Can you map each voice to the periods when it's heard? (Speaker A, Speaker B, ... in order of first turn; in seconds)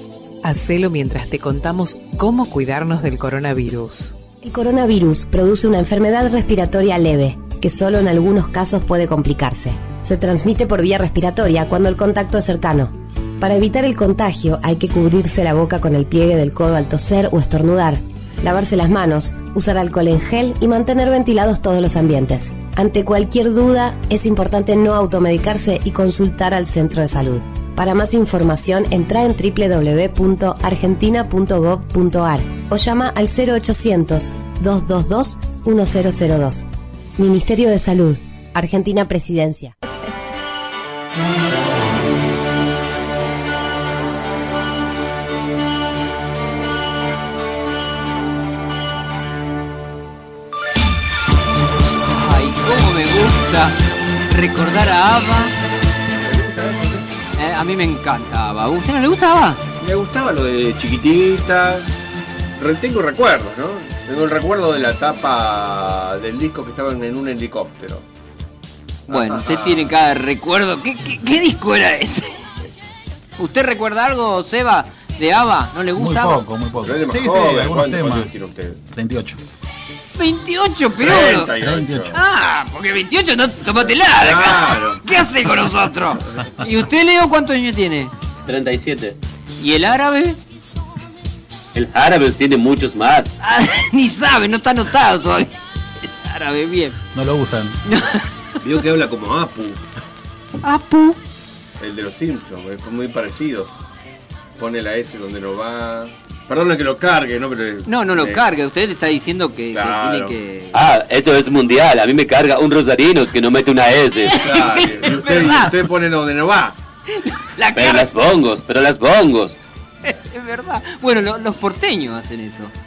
Speaker A: 0.4-4.1
Speaker B: 4.4-36.6, 37.2-39.7
Speaker C: 52.0-55.5, 57.4-59.6, 69.1-72.4, 73.4-76.4, 80.2-81.5, 82.1-88.1, 89.6-90.4, 93.4-97.0, 97.9-98.2, 100.6-101.2, 107.9-110.8, 114.3-115.7, 117.2-118.1, 120.0-122.7
Speaker D: 56.2-57.1, 59.8-61.9, 62.6-68.0, 69.1-69.9, 76.8-78.8, 81.0-82.2, 83.8-85.0, 98.6-99.8, 101.8-103.8, 104.6-108.4, 109.7-110.3, 114.4-116.8
Speaker E: 75.9-78.3, 78.9-79.4, 81.6-82.2, 97.1-97.8
Speaker F: 88.5-89.2, 91.7-93.3, 110.7-114.4, 117.7-119.6